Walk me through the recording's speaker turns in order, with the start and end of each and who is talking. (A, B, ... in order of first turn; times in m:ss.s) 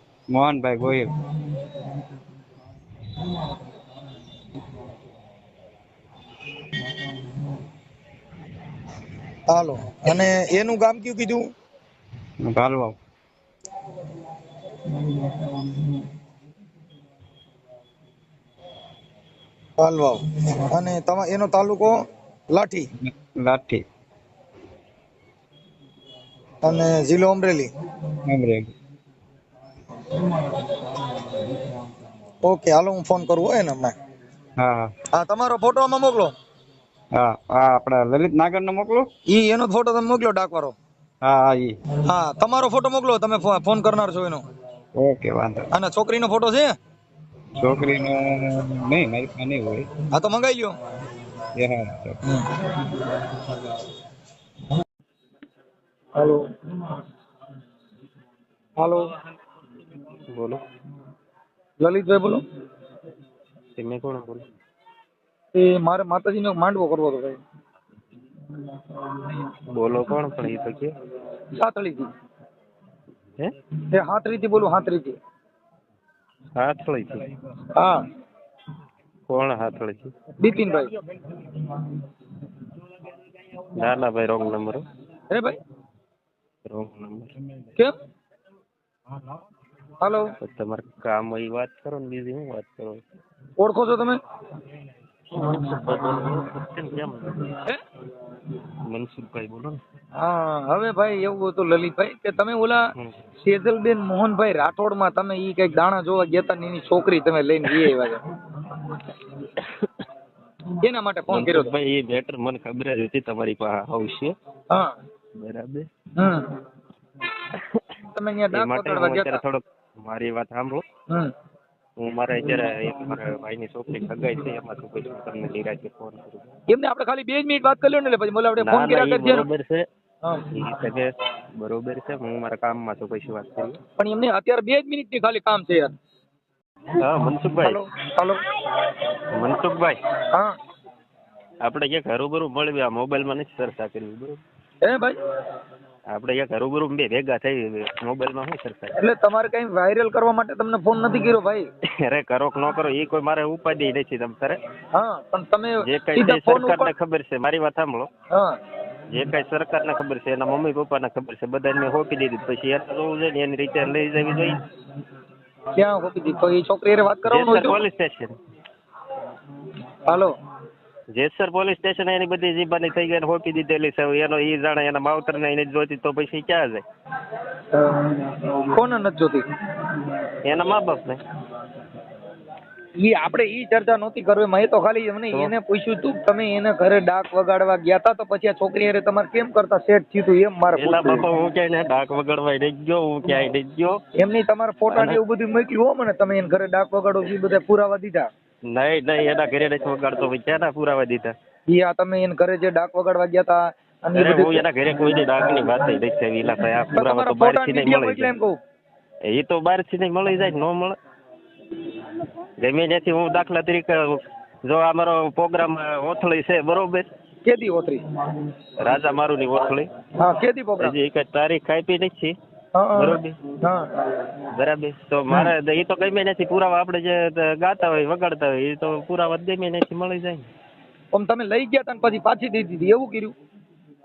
0:00.3-0:01.1 A
0:09.5-0:11.5 B
0:12.4-0:13.0 A
0:19.8-0:22.0 B
0:22.5-0:22.9 B
0:23.2-0:23.8 A
0:26.6-0:27.7 B
0:28.2-0:28.7 A
0:32.4-0:33.9 B
0:34.6-0:34.9 A
0:35.1-0:36.3 B
0:37.1-0:39.1 A
0:39.3-0:40.7 B
0:41.2-0:41.8 A
0:42.0-0:44.4 B
0:45.0-0:45.7 A
0:45.7-0:46.7 B
0:47.6-0:49.9 A
0:50.1-0:50.8 B
0:51.6-0:52.2 A
0:56.2-0:56.5 B
0:58.8-0:59.1 B
1:00.3-1:00.6 C
1:01.8-1:02.4 B
1:03.8-1:04.4 C
1:05.5-1:07.4 B
1:09.7-1:10.9 C
1:11.6-1:12.1 B
1:13.9-1:15.2 B
1:16.6-1:17.3 C
1:17.7-1:18.0 B
1:19.3-1:20.1 C
1:20.4-1:20.9 B
1:23.7-1:24.8 C
1:25.3-1:25.6 B
1:26.7-1:27.3 C
1:30.0-1:30.3 B
1:30.4-1:33.0 C
1:33.6-1:34.2 B
1:35.3-1:37.6 C
1:38.8-1:39.8 C
1:40.2-1:42.9 B
1:43.4-1:48.2 B
1:49.6-1:50.0 C
1:50.8-1:51.7 B
1:51.3-1:54.4 C
1:55.4-1:55.9 C
1:56.2-1:56.5 B
1:57.5-1:57.8 C
1:58.1-1:59.4 B
1:58.5-2:00.8 C
2:02.0-2:06.5 C
2:06.7-2:09.4 B
2:08.6-2:09.8 C
2:10.5-2:13.8 C
2:14.0-2:15.9 B
2:17.0-2:17.8 C
2:17.6-2:18.4 B
2:19.3-2:20.0 C
2:21.6-2:24.4 C
2:24.8-2:25.2 B
2:26.1-2:29.0 C
2:29.0-2:31.6 B
2:32.0-2:34.6 C
2:34.9-2:36.9 B
2:35.8-2:38.1 C
2:39.1-2:44.6 C
2:45.8-2:47.8 B
2:47.2-2:48.4 C
2:50.0-2:50.3 B
2:51.1-2:56.8 C
2:57.7-2:59.4 B
3:00.4-3:01.2 C
3:03.0-3:11.2 B
3:10.7-3:14.0 C
3:14.2-3:18.3 B
3:14.9-3:15.2 C
3:18.7-3:21.3 C
3:21.7-3:24.6 B
3:24.1-3:28.3 C
3:26.9-3:28.6 B
3:29.3-3:31.0 C
3:32.6-3:37.1 C
3:37.4-3:38.0 B
3:38.8-3:39.9 C
3:40.2-3:40.9 B
3:40.8-3:42.4 C
3:42.7-3:43.9 B
3:42.9-3:43.4 C
3:44.5-3:50.5 C
3:51.1-3:53.3 B